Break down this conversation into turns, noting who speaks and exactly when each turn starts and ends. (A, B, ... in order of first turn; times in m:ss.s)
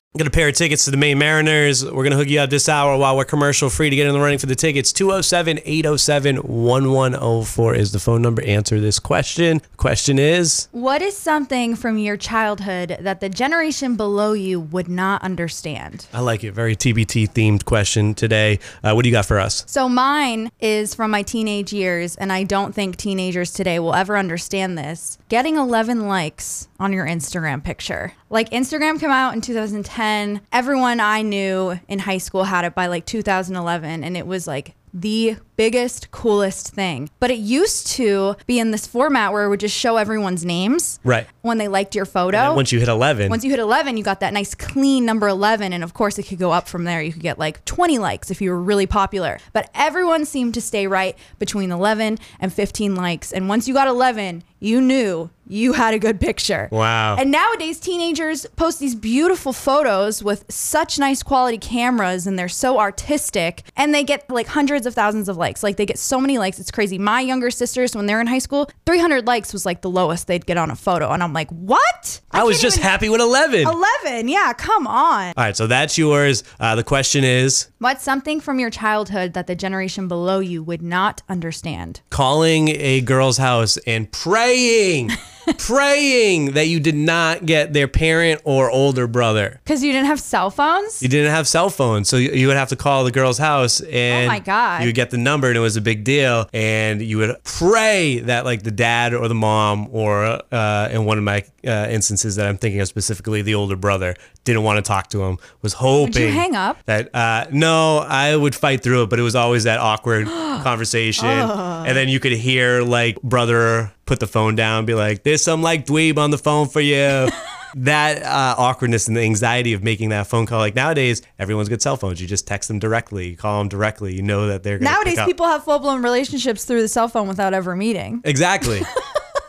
0:00.1-0:10.7 A
0:10.7-0:16.1 B
0:16.1-0:19.7 A
0:19.7-0:42.7 B
0:42.3-0:43.4 A
0:43.2-1:12.9 B
0:56.7-0:57.2 A
1:12.3-1:13.8 A
1:13.6-1:15.4 B
1:15.4-1:17.7 A
1:17.8-1:22.0 B
1:22.1-1:29.6 A
1:29.7-1:31.1 B
1:31.0-2:05.3 A
1:34.1-1:34.9 B
1:46.0-1:46.8 B
1:51.2-1:52.0 B
2:04.8-2:08.3 B
2:08.2-2:08.9 A